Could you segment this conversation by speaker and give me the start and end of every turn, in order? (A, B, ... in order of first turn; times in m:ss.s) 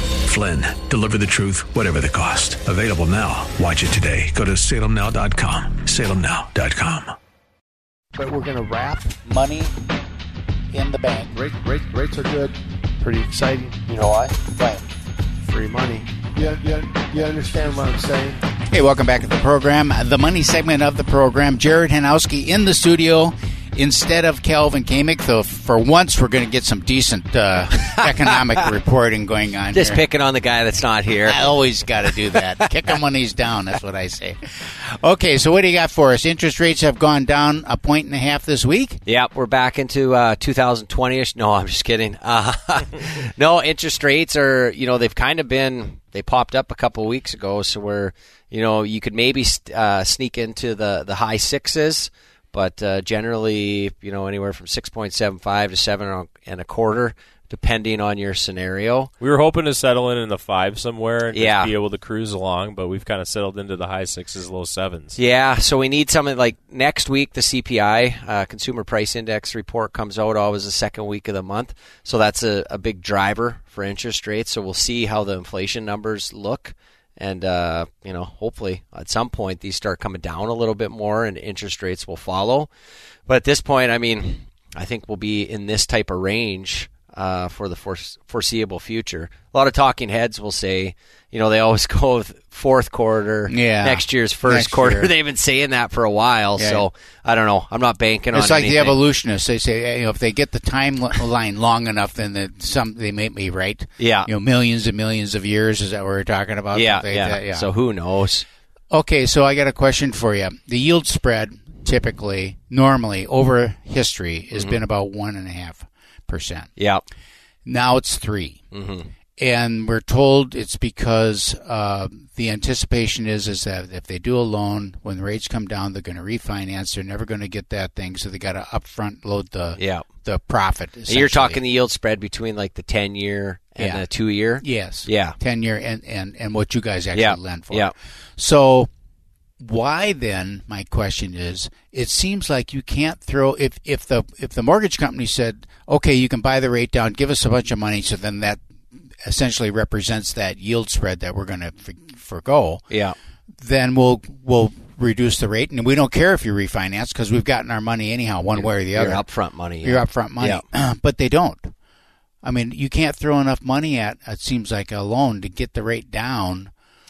0:00.2-0:07.1 A
0:08.2-0:09.7 B
0:10.7-0:11.4 B
0:11.4-0:14.1 C
0:14.4-0:14.7 B
0:15.7-0:18.4 C
0:18.7-0:30.0 B
0:29.7-0:31.5 D
0:31.2-0:39.0 B
0:32.0-0:32.7 D
0:39.0-0:59.1 D
0:59.2-1:05.2 E
1:01.3-1:01.7 D
1:05.1-1:22.7 D
1:23.3-1:39.0 D
1:33.5-1:35.1 B
1:36.6-1:36.8 B
1:38.3-1:47.7 B
1:44.0-1:44.3 D
1:46.7-1:48.4 D
1:48.9-1:56.7 B
1:56.8-1:57.0 D
1:57.6-1:58.6 B
1:58.7-1:59.1 D
1:59.4-2:11.6 B
2:09.8-2:10.0 D
2:11.1-2:15.4 D
2:13.8-2:14.0 B
2:14.6-2:18.9 B
2:17.1-2:17.9 D
2:19.6-2:28.6 B
2:29.2-2:32.8 B
2:32.9-2:33.2 D
2:33.6-2:39.3 B
2:38.5-2:40.6 D
2:39.8-2:41.7 B
2:42.4-2:46.7 B